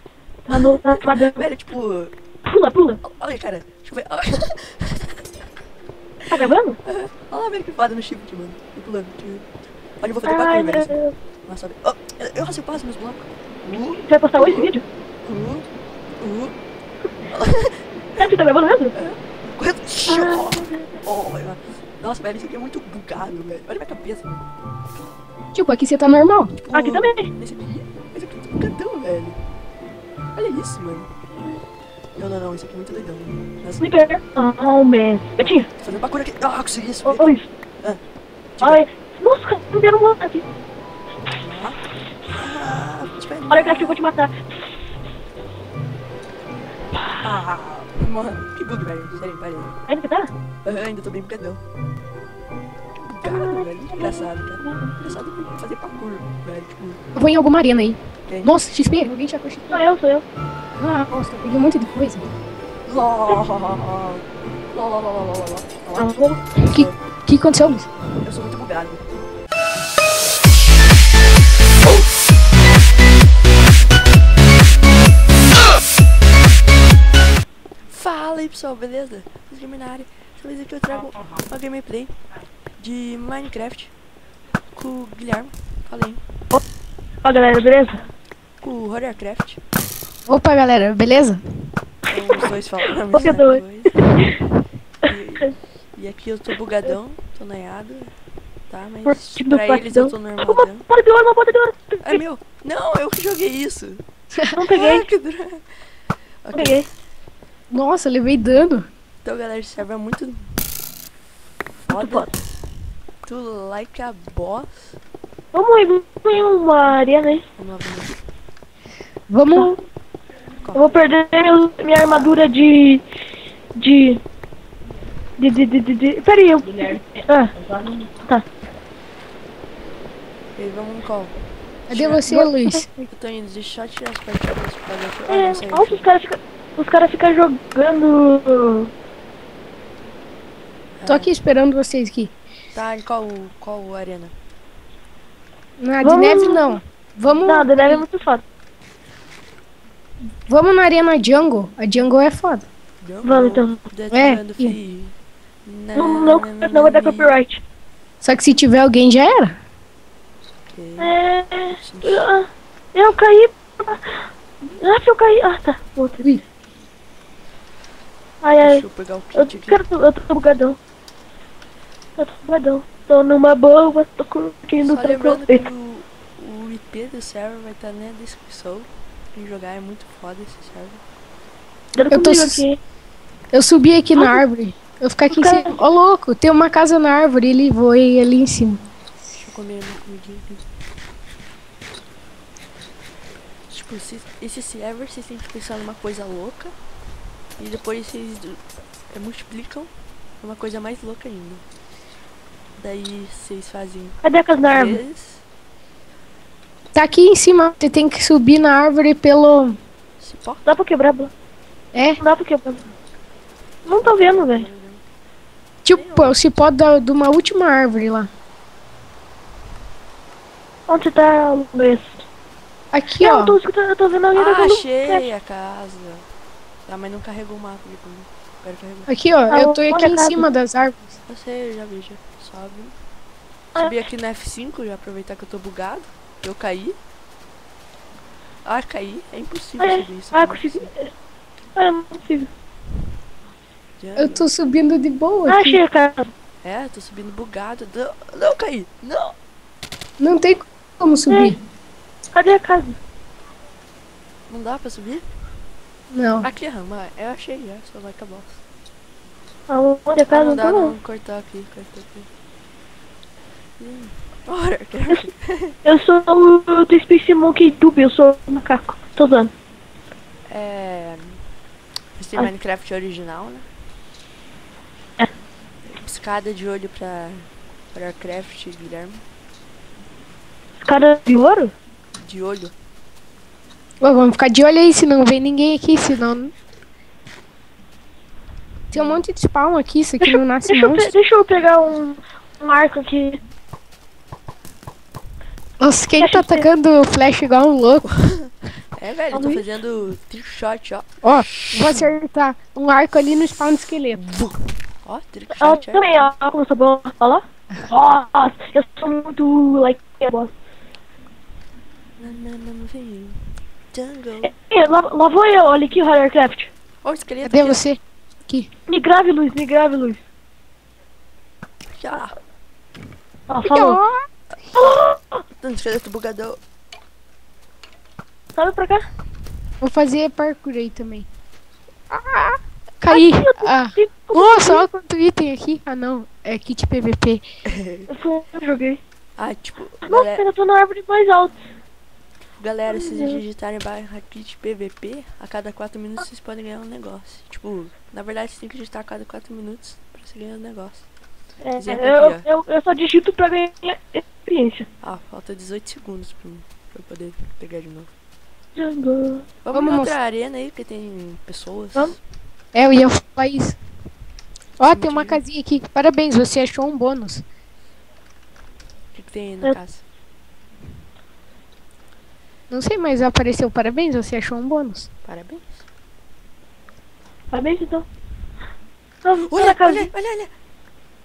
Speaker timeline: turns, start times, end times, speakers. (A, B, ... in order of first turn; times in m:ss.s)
0:00.5-0:01.5 A
0:00.5-0:02.1 B
0:02.4-0:03.0 A
0:03.0-0:05.1 B
0:06.3-0:09.4 B
0:06.3-0:06.8 A
0:10.0-0:14.7 B
0:10.2-0:11.1 A
0:14.0-0:14.8 A
0:15.2-0:15.6 B
0:16.2-0:16.5 B
0:17.3-0:18.2 B
0:18.2-0:18.9 A
0:18.9-0:24.4 B
0:20.1-0:20.8 A
0:25.5-0:26.5 C
0:26.6-0:29.4 B
0:26.7-0:27.3 A
0:30.4-0:31.1 B
0:32.2-0:33.8 B
0:33.8-0:35.7 A
0:35.4-0:37.2 B
0:37.0-0:37.5 A
0:38.6-0:38.8 B
0:38.6-0:40.5 A
0:41.2-0:41.8 B
0:42.4-0:44.0 B
0:43.5-0:44.3 A
0:47.2-0:49.8 B
0:49.9-0:50.3 A
0:50.6-0:51.6 B
0:53.1-0:57.0 B
0:53.2-0:55.0 A
0:57.1-0:59.8 C
0:58.3-0:58.5 B
0:59.7-1:00.2 A
1:00.8-1:02.2 C
1:02.9-1:07.0 B
1:06.0-1:06.3 A
1:06.6-1:07.9 C
1:08.2-1:09.1 B
1:17.9-1:22.1 B
1:22.8-1:23.9 B
1:24.7-1:26.2 B
1:27.2-1:28.0 A
1:28.6-1:29.6 B
1:30.3-1:31.4 C
1:32.1-1:34.2 B
1:33.1-1:34.4 A
1:35.0-1:38.1 B
1:38.7-1:40.8 B
1:39.0-1:42.2 A
1:42.0-1:44.0 B
1:44.5-1:45.1 A
1:44.7-1:45.6 B
1:46.4-1:46.8 B
1:46.5-1:46.8 A
1:47.7-1:48.9 C
1:49.2-1:50.4 B
1:51.9-1:52.3 B
1:51.9-1:52.3 A
1:53.2-1:55.0 B
1:55.5-1:57.4 A
1:57.6-1:58.2 B
1:59.3-1:59.7 C
1:59.5-1:59.8 A
2:00.7-2:03.0 A
2:02.1-2:02.4 B
2:03.8-2:04.2 A
2:05.4-2:07.5 A
2:08.1-2:08.4 A
2:10.6-2:11.3 B
2:11.9-2:12.3 B
2:11.9-2:12.9 C
2:12.3-2:13.0 A
2:13.1-2:16.0 B
2:15.3-2:18.9 A
2:21.0-2:21.3 B
2:21.0-2:22.3 C
2:22.7-2:24.3 B
2:25.8-2:28.0 C
2:26.0-2:26.8 A
2:27.4-2:28.4 A
2:30.5-2:32.6 C
2:33.0-2:35.1 B
2:33.2-2:33.8 A
2:34.1-2:34.7 C
2:35.6-2:37.3 B
2:36.0-2:37.6 A
2:38.2-2:39.6 C
2:40.7-2:41.1 B
2:41.0-2:44.2 A
2:41.7-2:42.2 B
2:44.8-2:46.3 A
2:48.4-2:50.8 A
2:48.6-2:49.8 B
2:52.2-2:55.6 A
2:54.8-3:01.0 B
3:01.9-3:02.8 A
3:02.1-3:02.6 C
3:03.5-3:08.8 C
3:04.1-3:04.4 A
3:05.3-3:05.7 A
3:09.4-3:10.6 B
3:13.7-3:16.7 B
3:17.6-3:18.6 B
3:19.1-3:21.6 B
3:22.8-3:24.2 B
3:24.2-3:25.0 A
3:24.7-3:25.4 B
3:26.9-3:29.8 C
3:30.2-3:30.6 B
3:30.6-3:31.3 A
3:31.9-3:32.2 C
3:32.2-3:32.8 A
3:33.8-3:35.0 B
3:33.9-3:34.7 A
3:35.8-3:38.3 C
3:35.9-3:36.4 B
3:40.9-3:42.2 A
3:42.9-3:43.6 C
3:43.2-3:45.2 A
3:44.3-3:46.2 B
3:46.9-3:49.1 B
3:49.1-3:51.1 C
3:49.5-3:50.4 A
3:51.3-3:52.9 B
3:53.8-3:57.0 B
3:58.6-4:00.9 B
3:59.8-4:01.1 A
4:01.8-4:02.5 A
4:04.0-4:04.5 B
4:04.2-4:05.8 C
4:05.5-4:06.3 A
4:06.6-4:09.3 B
4:10.2-4:11.6 C
4:11.3-4:11.5 A
4:12.3-4:13.0 A
4:14.5-4:15.2 B
4:16.1-4:16.5 C
4:16.4-4:18.6 B
4:19.7-4:20.9 A
4:20.3-4:22.3 B
4:23.8-4:25.7 B
4:25.8-4:29.5 A
4:30.5-4:31.4 B
4:32.2-4:33.6 B
4:35.9-4:39.2 B
4:40.8-4:41.7 A
4:42.2-4:42.7 B
4:44.0-4:46.5 C
4:48.9-4:51.1 C
4:48.9-4:49.2 B
4:50.2-4:53.4 A
4:55.8-4:58.1 C
4:56.2-4:56.7 A
4:58.2-5:02.1 B
4:59.3-4:59.6 A
5:01.2-5:04.4 C
5:04.2-5:06.3 B
5:05.5-5:10.5 A
5:12.2-5:13.4 B
5:13.9-5:14.5 B
5:14.4-5:16.7 A
5:17.0-5:17.8 B
5:17.4-5:18.7 C
5:18.9-5:20.2 A
5:21.9-5:22.3 B
5:23.5-5:24.0 A
5:23.6-5:24.2 C
5:24.8-5:25.4 A
5:25.6-5:26.6 B
5:28.5-5:29.0 A
5:29.8-5:31.3 C
5:32.1-5:37.4 C
5:33.1-5:34.8 A
5:37.7-5:38.0 B
5:38.1-5:39.0 A
5:39.4-5:40.4 B
5:40.1-5:41.6 A
5:42.6-5:51.1 B
5:42.9-5:43.4 A
5:51.6-5:54.8 A
5:51.8-5:52.4 B
5:55.0-5:58.1 B
5:58.7-5:59.5 A
5:59.6-6:02.2 B
5:59.7-6:00.2 C
6:02.7-6:03.8 C
6:04.8-6:07.4 C
6:04.8-6:05.4 B
6:09.1-6:10.0 B
6:12.7-6:15.1 C
6:15.2-6:15.8 B
6:17.5-6:18.0 A
6:19.2-6:20.1 A
6:19.5-6:20.5 B